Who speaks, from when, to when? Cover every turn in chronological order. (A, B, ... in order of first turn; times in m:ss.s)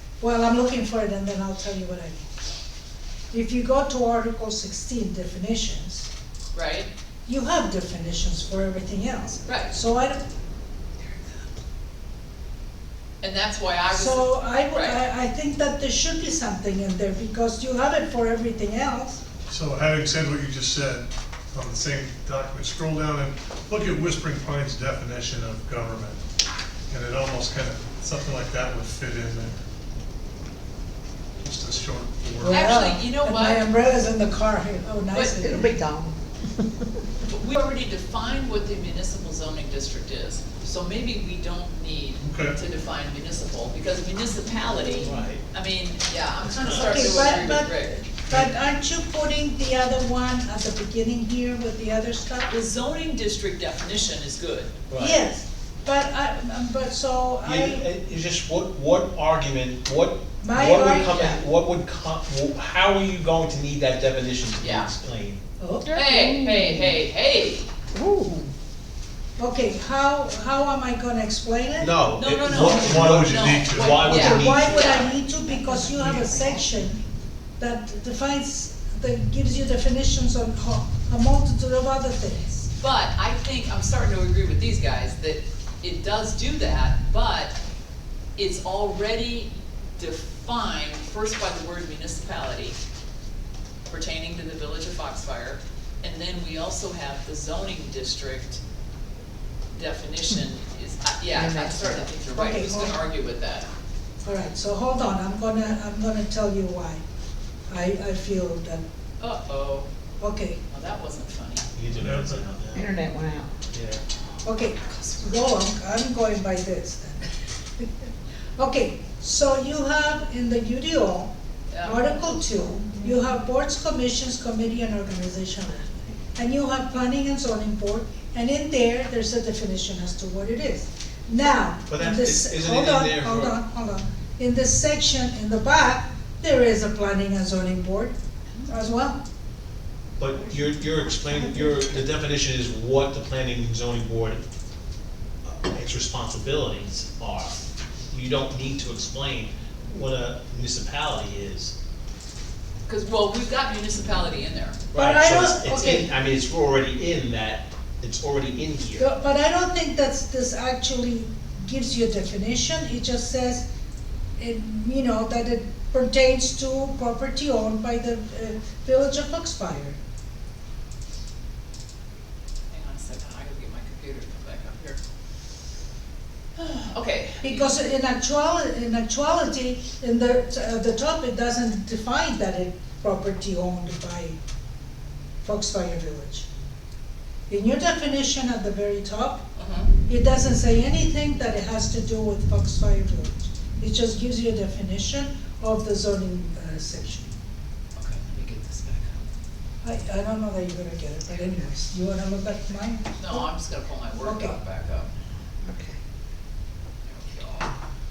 0:00.2-0:02.3 A
0:03.3-0:06.1 A
0:06.5-0:06.9 B
0:07.3-0:10.2 A
0:09.5-0:09.8 B
0:13.2-0:15.0 B
0:13.9-0:19.2 A
0:19.5-0:26.2 C
0:26.9-0:29.6 C
0:31.4-0:32.7 C
0:32.4-0:35.8 A
0:32.5-0:33.6 B
0:35.1-0:35.4 B
0:35.4-0:36.2 D
0:37.3-0:48.0 B
0:42.2-0:42.6 C
0:44.9-0:45.4 E
0:46.4-0:47.3 E
0:46.7-0:52.5 A
0:52.5-0:54.7 B
0:54.9-0:55.2 E
0:55.0-0:57.9 A
0:57.4-1:05.4 E
1:00.4-1:01.1 A
1:04.6-1:04.9 B
1:05.6-1:05.9 A
1:05.9-1:07.0 D
1:05.9-1:07.7 B
1:07.9-1:08.5 D
1:09.4-1:12.0 A
1:11.8-1:15.0 E
1:12.2-1:15.3 B
1:12.5-1:14.2 C
1:14.0-1:17.0 A
1:15.5-1:16.8 D
1:17.6-1:22.7 A
1:22.8-1:27.6 B
1:28.4-1:32.8 B
1:33.9-1:38.6 B
1:39.8-1:43.7 B
1:41.3-1:42.1 D
1:42.3-1:43.0 A
1:44.2-1:47.0 A
1:47.7-1:48.8 A
1:49.2-1:49.9 B
1:50.2-1:50.6 A
1:50.7-1:51.7 B
1:51.8-1:52.9 E
1:52.0-1:52.5 C
1:52.7-1:53.5 D
1:53.7-1:54.0 E
1:54.4-2:01.3 A
2:01.7-2:02.2 B
2:01.8-2:18.1 A
2:11.9-2:13.6 E
2:18.6-2:19.2 A
2:20.2-2:24.4 E
2:25.4-2:31.7 E
2:32.9-2:34.8 B
2:34.9-2:39.1 E
2:34.9-2:36.1 A
2:39.0-2:43.6 A
2:44.4-2:50.0 A
2:52.7-2:55.0 B
2:56.6-2:57.7 B
2:57.4-3:04.4 A
3:05.4-3:06.5 A
3:07.5-3:09.4 A
3:09.6-3:09.9 B
3:10.1-3:17.3 A
3:18.0-3:19.3 B
3:19.8-3:23.5 A
3:23.2-3:25.1 B
3:24.2-3:24.6 A
3:25.6-3:26.0 D
3:27.0-3:27.7 B